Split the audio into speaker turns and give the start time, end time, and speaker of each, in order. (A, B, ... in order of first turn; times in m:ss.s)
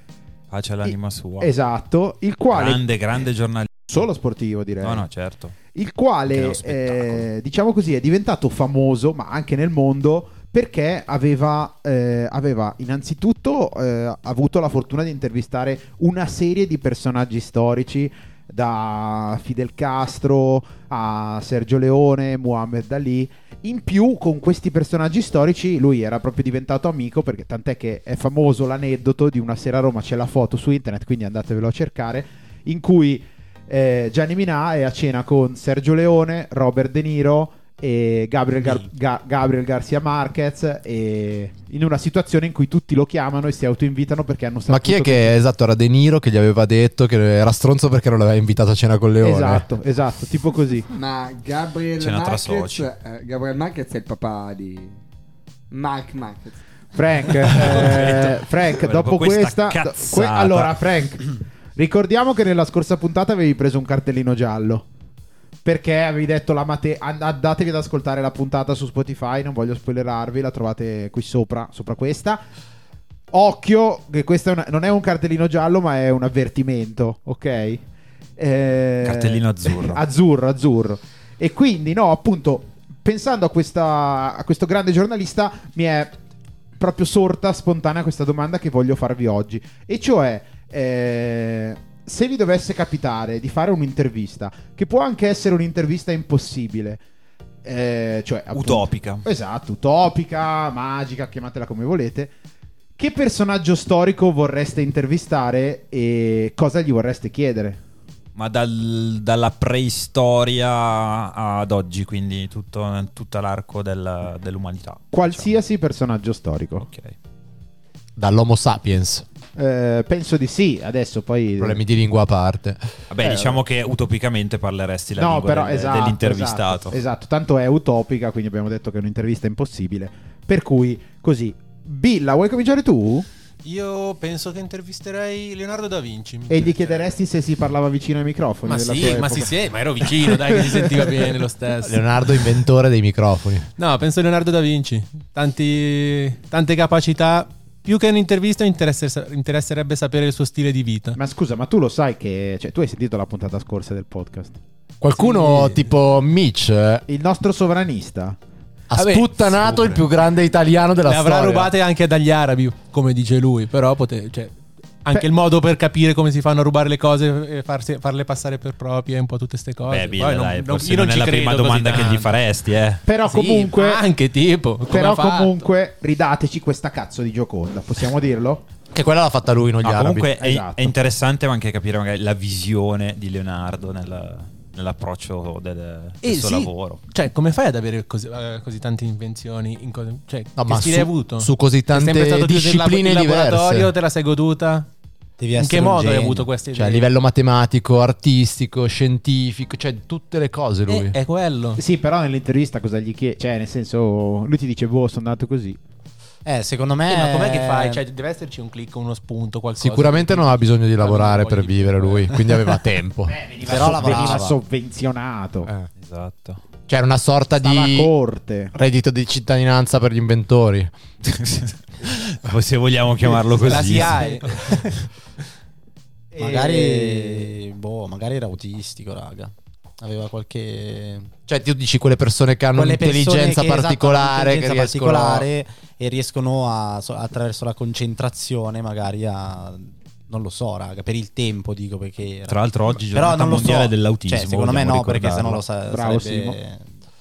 0:00.5-0:01.5 A
0:00.9-0:02.8 B
0:02.5-0:03.9 A
0:03.9-0:05.0 B
0:04.8-0:05.6 A
0:05.7-0:45.3 B
0:06.3-0:07.3 A
0:38.6-0:38.9 C
0:44.7-0:49.7 D
0:49.2-0:50.9 B
0:50.9-0:55.0 E
0:52.0-0:52.9 A
0:55.7-0:56.6 E
0:57.0-1:04.9 B
0:57.6-1:00.9 A
1:05.6-1:12.4 B
1:13.3-1:17.8 B
1:18.4-1:26.1 B
1:19.0-1:20.0 A
1:26.8-1:37.0 B
1:37.6-1:42.3 B
1:38.5-1:39.2 A
1:43.0-1:47.8 B
1:48.4-1:55.6 A
1:55.1-1:56.9 B
1:56.8-1:57.2 A
1:58.2-1:59.3 D
1:59.6-2:01.8 B
2:01.6-2:02.8 D
2:03.1-2:07.0 A
2:03.2-2:03.6 B
2:05.2-2:13.3 B
2:13.6-2:17.1 F
2:16.5-2:21.3 B
2:18.6-2:22.5 F
2:21.8-2:23.7 D
2:23.8-2:31.2 F
2:31.2-2:34.6 B
2:35.0-2:37.0 D
2:35.2-2:35.8 F
2:37.1-2:38.4 B
2:38.9-2:41.7 D
2:38.9-2:40.0 F
2:41.0-2:52.4 F
2:49.9-2:53.0 A
2:53.1-2:54.0 B
2:53.2-2:55.6 F
2:54.9-2:58.6 B
2:58.9-3:00.3 D
2:59.8-3:07.0 A
3:00.4-3:01.0 B
3:06.2-3:14.9 F
3:10.6-3:13.9 D
3:15.4-3:16.5 C
3:15.6-3:17.1 F
3:16.7-3:21.2 D
3:20.9-3:21.8 F
3:21.8-3:25.8 B
3:26.4-3:28.0 C
3:27.1-3:32.7 F
3:29.8-3:34.3 D
3:33.3-3:35.7 B
3:33.6-3:34.6 C
3:36.0-3:36.6 A
3:36.9-3:38.1 D
3:37.6-3:38.7 B
3:38.7-3:40.9 D
3:41.2-3:44.3 A
3:43.4-3:45.1 F
3:43.6-3:44.7 C
3:46.3-3:47.5 B
3:46.4-3:51.3 C
3:51.5-3:55.5 D
3:52.8-4:07.0 C
4:02.5-4:05.6 A
4:05.9-4:06.6 B